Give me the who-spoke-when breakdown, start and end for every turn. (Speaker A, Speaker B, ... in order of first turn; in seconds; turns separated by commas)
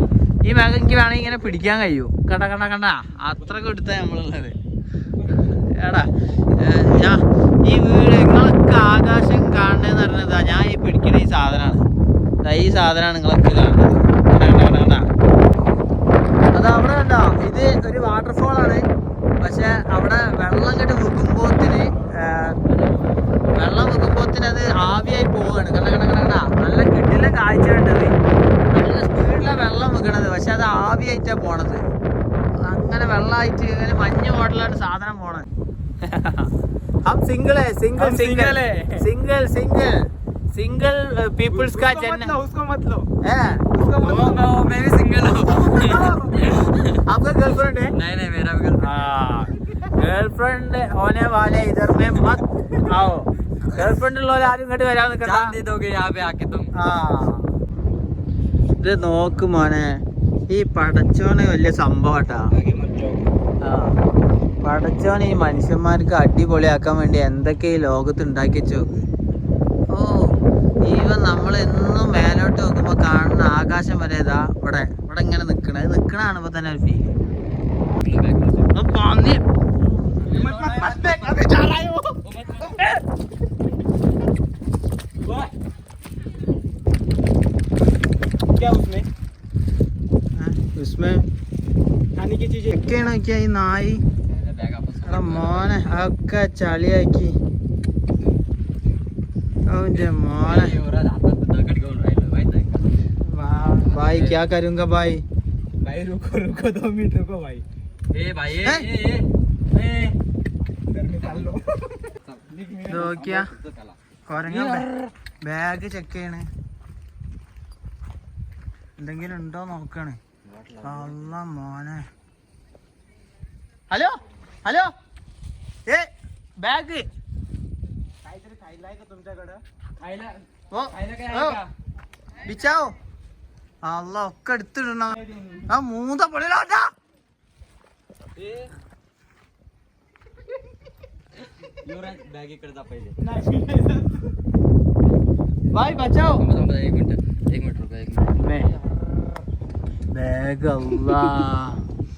Speaker A: 0.5-4.5, Speaker A: 5.5-11.8, Speaker A: 12.4-15.1, Speaker A: 16.5-18.8, Speaker A: 19.4-22.6, Speaker A: 23.5-28.1, Speaker A: 28.7-31.8, Speaker A: 32.6-35.5, Speaker A: 36.0-36.5, Speaker A: 37.1-40.0, Speaker B: 38.0-39.0, Speaker A: 40.5-42.3, Speaker B: 41.5-43.1, Speaker A: 43.2-43.7, Speaker B: 43.7-44.5, Speaker C: 44.0-47.0, Speaker B: 45.8-46.3, Speaker A: 47.0-48.0, Speaker C: 47.9-49.1, Speaker A: 48.8-55.5, Speaker C: 55.2-56.7, Speaker A: 56.8-57.5, Speaker A: 58.8-62.5, Speaker B: 62.5-63.3, Speaker A: 63.6-64.0, Speaker A: 64.6-69.0, Speaker A: 69.9-77.1, Speaker C: 78.0-78.7, Speaker A: 78.7-79.4, Speaker B: 80.2-82.2, Speaker C: 80.2-81.3, Speaker C: 82.3-82.8, Speaker B: 88.5-89.1, Speaker A: 90.3-91.2, Speaker B: 92.1-92.7, Speaker A: 92.7-94.0, Speaker C: 94.3-95.9, Speaker A: 95.0-97.3, Speaker A: 99.7-100.8, Speaker C: 100.4-102.9, Speaker A: 103.2-105.2, Speaker C: 103.8-104.5, Speaker B: 105.8-107.6, Speaker C: 108.1-110.2, Speaker A: 108.5-108.9, Speaker B: 110.9-113.3, Speaker C: 111.2-111.6, Speaker A: 112.8-113.5, Speaker C: 113.3-114.0, Speaker A: 114.2-114.9, Speaker C: 114.5-115.1, Speaker A: 115.4-116.5, Speaker A: 119.0-120.2, Speaker C: 120.5-121.3, Speaker A: 120.8-122.0, Speaker A: 123.9-124.9, Speaker A: 125.9-127.0, Speaker B: 128.2-129.6, Speaker C: 130.0-131.7, Speaker A: 130.7-131.6, Speaker A: 132.4-132.9, Speaker A: 133.8-136.9, Speaker C: 138.4-138.7, Speaker C: 141.8-143.2, Speaker B: 143.2-144.3, Speaker A: 145.7-146.4, Speaker C: 146.3-148.3, Speaker A: 148.3-148.7, Speaker A: 150.1-151.8